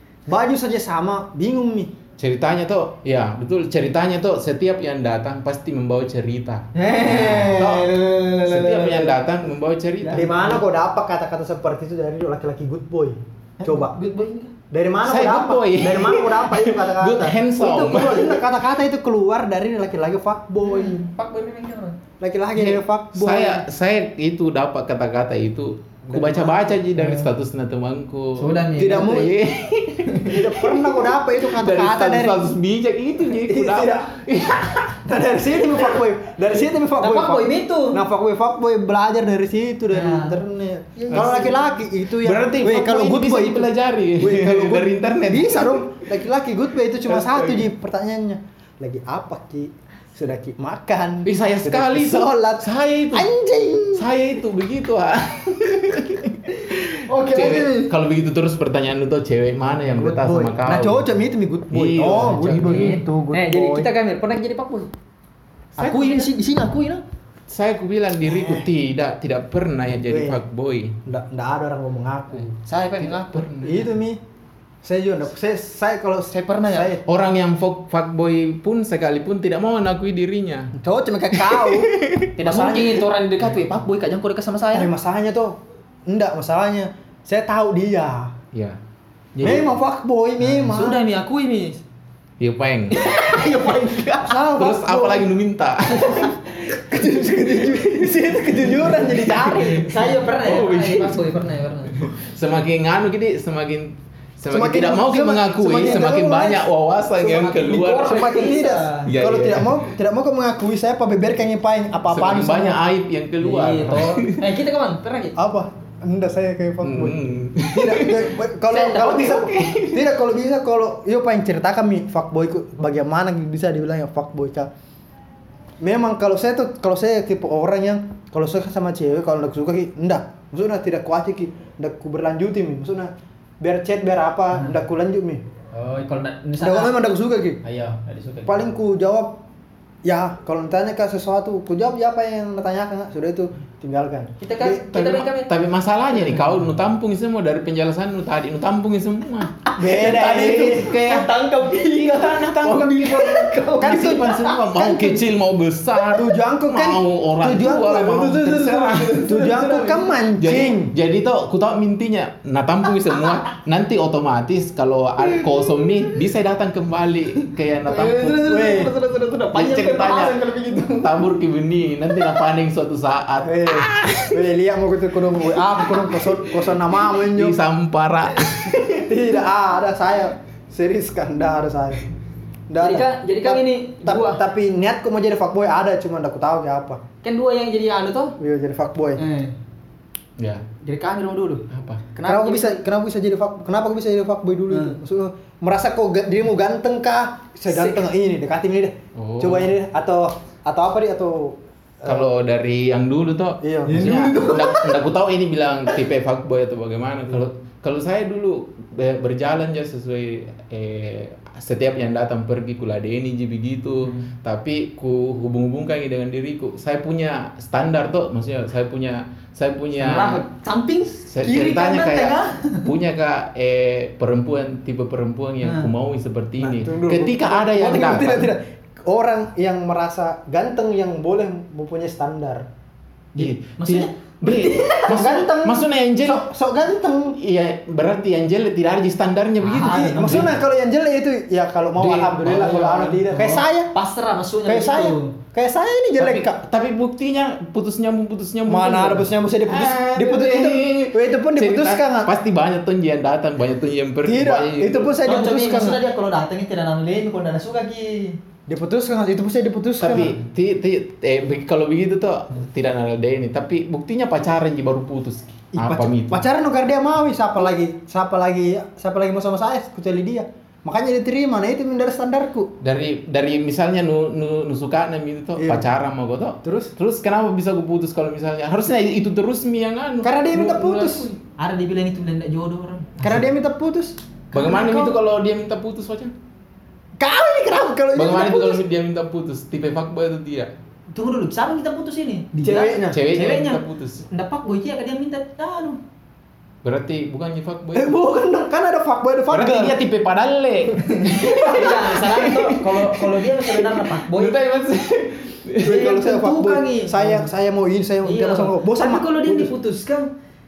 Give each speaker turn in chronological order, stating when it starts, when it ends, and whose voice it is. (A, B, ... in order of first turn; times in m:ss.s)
0:00.3-0:01.9 A
0:02.2-0:10.3 B
0:06.7-0:09.2 C
0:10.0-0:10.6 C
0:10.1-0:14.0 A
0:13.6-0:14.5 C
0:14.7-0:21.0 A
0:15.0-0:18.4 B
0:20.6-0:22.0 C
0:22.2-0:23.6 A
0:22.5-0:35.0 B
0:26.1-0:26.7 A
0:26.9-0:27.3 C
0:28.4-0:29.2 C
0:28.8-0:29.4 A
0:30.1-0:30.3 C
0:30.2-0:32.5 A
0:33.3-0:34.2 A
0:35.0-0:54.1 A
0:37.0-0:38.0 C
0:39.9-0:40.4 C
0:41.0-0:41.6 C
0:41.1-0:41.6 B
0:42.2-0:45.8 B
0:47.1-0:47.6 B
0:51.2-0:53.3 B
0:53.9-1:01.0 B
0:57.1-0:57.9 A
0:57.1-0:57.7 C
0:59.9-1:03.9 A
1:01.7-1:03.0 B
1:02.6-1:04.9 C
1:05.8-1:07.0 C
1:05.8-1:06.3 B
1:07.5-1:11.0 B
1:08.2-1:08.6 A
1:10.0-1:10.4 A
1:11.0-1:12.5 A
1:12.6-1:13.6 C
1:13.0-1:13.9 B
1:13.6-1:14.2 A
1:14.8-1:17.0 A
1:16.5-1:16.9 C
1:17.0-1:20.7 B
1:20.8-1:23.0 A
1:21.4-1:22.3 B
1:22.4-1:24.9 C
1:24.7-1:28.3 A
1:28.5-1:28.8 B
1:29.4-1:29.6 B
1:29.4-1:31.0 A
1:30.4-1:31.8 C
1:32.4-1:33.0 B
1:32.9-1:34.4 C
1:34.2-1:35.3 A
1:34.5-1:36.4 B
1:36.6-1:40.1 A
1:38.7-1:41.4 B
1:39.3-1:42.0 C
1:41.9-1:48.3 B
1:44.5-1:46.7 A
1:47.2-1:49.1 C
1:47.8-1:52.8 A
1:49.0-1:49.9 B
1:52.1-1:54.5 B
1:53.4-1:55.4 C
1:55.4-2:04.7 A
1:56.8-1:58.3 B
1:58.7-1:59.7 C
1:59.5-2:00.0 B
2:05.8-2:15.4 A
2:15.7-2:16.9 C
2:16.6-2:17.6 A
2:17.6-2:18.7 C
2:18.4-2:19.4 A
2:20.0-2:24.8 A
2:24.4-2:25.5 C
2:24.7-2:39.3 B
2:26.1-2:26.6 C
2:29.6-2:34.6 C
2:29.8-2:31.0 A
2:33.8-2:35.2 A
2:36.1-2:40.9 A
2:38.8-2:40.1 C
2:40.4-2:48.8 B
2:47.9-2:50.8 C
2:48.4-2:48.9 A
2:49.5-2:50.4 B
2:50.1-2:51.1 A
2:51.0-2:54.4 B
2:53.4-2:57.6 A
2:55.7-2:59.0 B
2:58.9-3:02.0 A
3:02.7-3:07.0 A
3:02.8-3:04.4 C
3:07.2-3:08.4 C
3:08.4-3:09.2 A
3:09.2-3:09.5 C
3:10.4-3:10.6 B
3:10.8-3:12.8 C
3:11.7-3:12.0 B
3:12.2-3:22.3 A
3:14.7-3:15.0 C
3:17.7-3:18.1 C
3:19.1-3:19.7 B
3:22.0-3:40.4 B
3:23.6-3:24.5 A
3:23.9-3:25.0 C
3:40.0-3:42.9 C
3:41.3-3:48.5 B
3:45.6-3:45.9 C
3:46.6-3:52.7 A
3:53.3-3:55.2 C
3:53.4-3:56.4 B
3:55.1-3:57.4 A
3:57.4-4:00.5 B
3:59.6-4:00.5 C
3:59.9-4:03.9 A
4:02.0-4:03.6 B
4:03.4-4:05.3 C
4:04.6-4:06.6 A
4:06.2-4:15.1 B
4:08.7-4:12.3 A
4:14.2-4:16.0 A
4:15.2-4:18.4 C
4:18.7-4:20.4 A
4:20.0-4:26.4 B
4:25.7-4:32.7 A
4:32.8-4:41.3 B
4:35.6-4:35.9 A
4:36.6-4:36.9 A
4:40.2-4:41.3 A
4:41.6-4:43.4 C
4:43.2-4:44.2 A
4:44.5-4:46.3 B
4:44.5-4:45.1 C
4:47.2-4:48.8 A
4:48.1-4:50.7 B
4:51.1-4:56.0 C
4:52.6-4:53.2 A
4:53.1-4:54.2 B
4:56.8-4:58.2 B
4:57.9-5:00.0 A
4:59.5-5:06.1 B
5:01.1-5:04.6 C
5:05.8-5:09.7 A
5:05.8-5:07.5 C
5:08.2-5:10.3 C